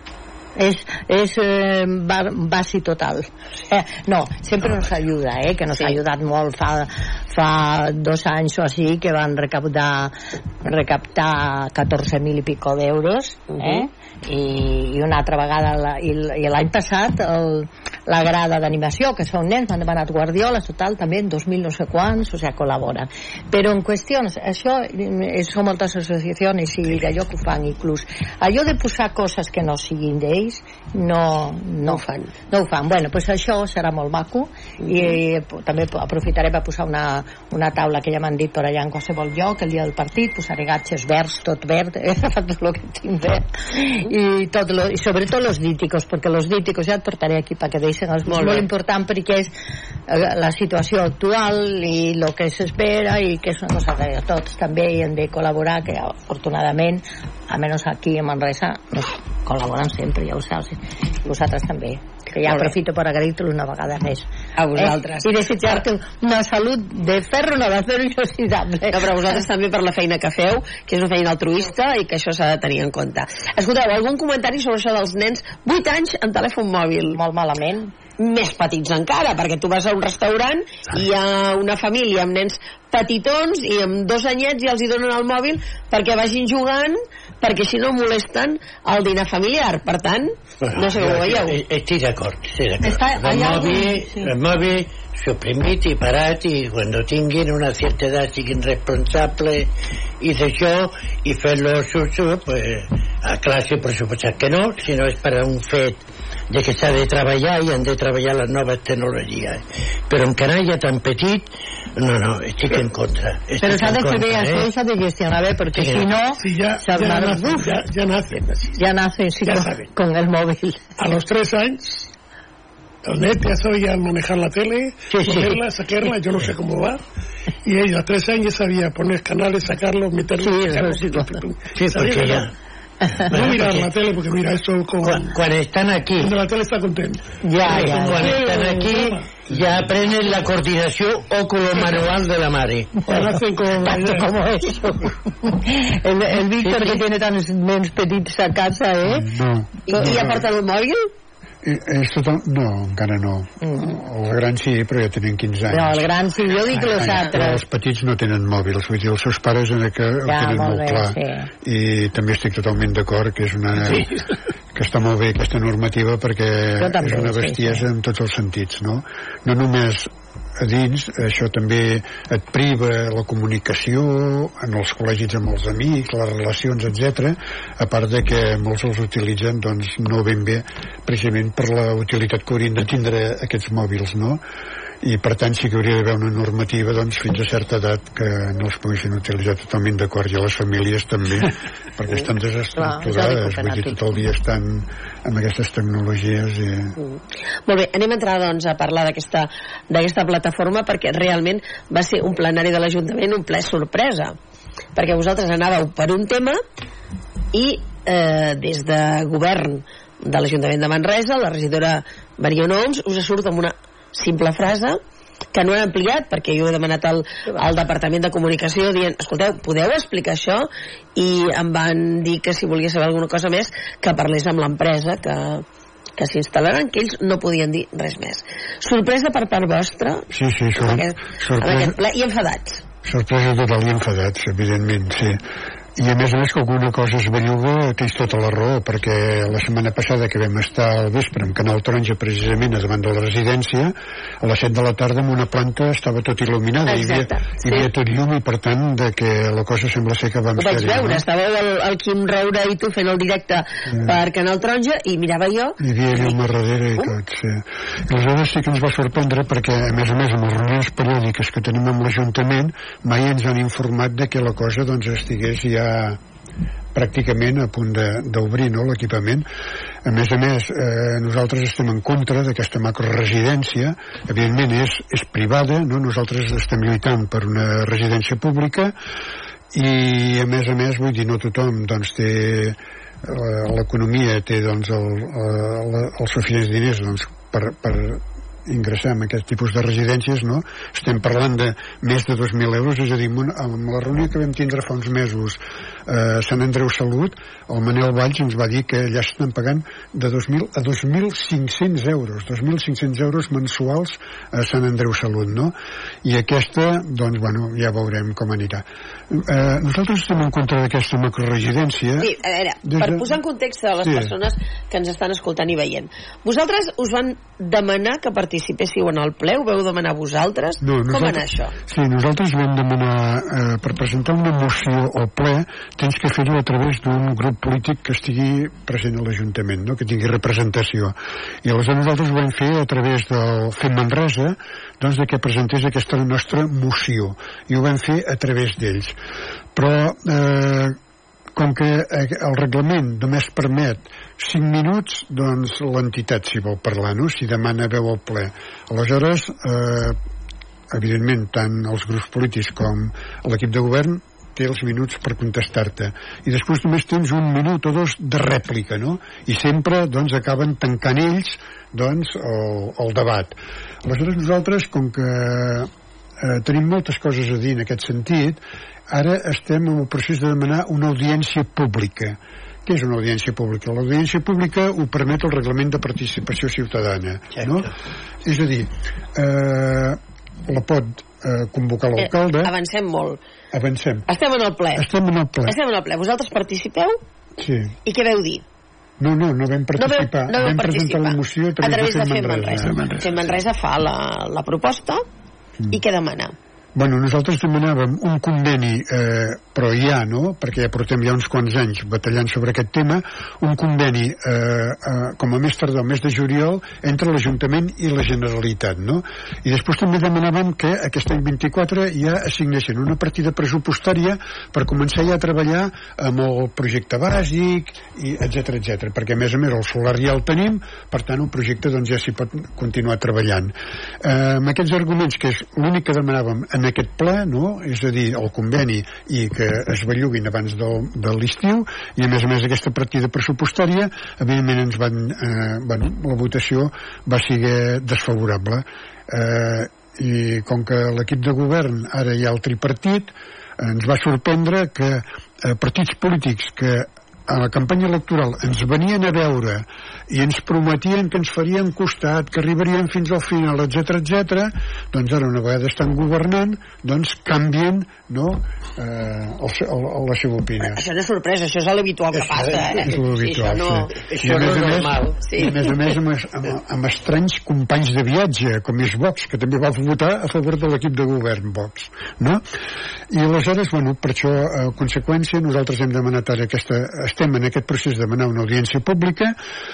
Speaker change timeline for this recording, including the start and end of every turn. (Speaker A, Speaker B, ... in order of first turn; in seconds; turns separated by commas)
Speaker A: 0.6-49.5, Speaker B: 13.5-13.8, Speaker B: 31.9-32.3, Speaker B: 34.9-35.1, Speaker B: 48.3-48.7, Speaker A: 50.1-69.4, Speaker B: 62.5-62.7, Speaker B: 64.6-65.8, Speaker B: 68.9-77.2, Speaker A: 77.1-77.9, Speaker B: 78.2-91.6, Speaker C: 90.6-99.7, Speaker A: 92.8-94.3, Speaker C: 100.2-114.7, Speaker A: 113.6-117.7, Speaker C: 115.7-116.2, Speaker D: 116.4-118.8, Speaker A: 118.8-120.9, Speaker D: 119.5-119.9, Speaker D: 121.0-122.1, Speaker D: 123.0-127.0, Speaker C: 125.1-125.6, Speaker D: 127.6-132.5, Speaker A: 130.4-131.4, Speaker C: 131.8-132.5, Speaker D: 133.2-135.4, Speaker C: 133.3-133.9, Speaker C: 135.0-136.4, Speaker D: 136.2-139.4, Speaker A: 137.4-138.5, Speaker C: 137.7-143.0, Speaker E: 139.5-139.8, Speaker D: 143.1-144.3, Speaker A: 143.1-149.3, Speaker C: 146.7-146.9, Speaker E: 149.1-150.5, Speaker B: 149.9-151.1, Speaker E: 151.6-156.1, Speaker A: 155.7-157.6, Speaker E: 156.8-164.1, Speaker A: 160.3-161.5, Speaker E: 164.8-184.4, Speaker A: 166.8-167.9, Speaker E: 185.0-197.0, Speaker A: 192.8-194.0, Speaker B: 197.0-204.4, Speaker B: 205.0-206.6, Speaker B: 207.5-215.0, Speaker B: 215.5-225.6, Speaker B: 226.2-232.8, Speaker E: 230.3-232.0, Speaker E: 233.1-235.4, Speaker E: 236.0-251.2, Speaker B: 246.9-247.9, Speaker B: 250.6-256.4, Speaker E: 253.9-254.2, Speaker E: 255.8-266.2, Speaker E: 266.9-269.5, Speaker E: 270.1-278.9, Speaker E: 279.7-312.3, Speaker B: 312.2-321.8, Speaker E: 312.8-313.4, Speaker E: 314.0-314.4, Speaker E: 320.8-339.2, Speaker E: 339.8-341.0, Speaker E: 341.6-350.2, Speaker E: 350.9-377.9, Speaker C: 377.6-377.8, Speaker E: 378.4-382.7, Speaker B: 382.2-383.4, Speaker E: 383.7-384.3, Speaker B: 384.3-385.1, Speaker E: 384.9-385.8, Speaker B: 385.7-387.2, Speaker E: 387.6-387.9, Speaker B: 388.1-388.6, Speaker E: 389.2-393.0, Speaker B: 390.0-395.2, Speaker D: 392.8-393.4, Speaker B: 395.9-396.6, Speaker E: 396.9-461.0, Speaker B: 460.8-464.9, Speaker C: 462.4-463.1, Speaker E: 463.0-472.6, Speaker C: 464.3-465.6, Speaker B: 465.4-465.9, Speaker E: 473.3-479.5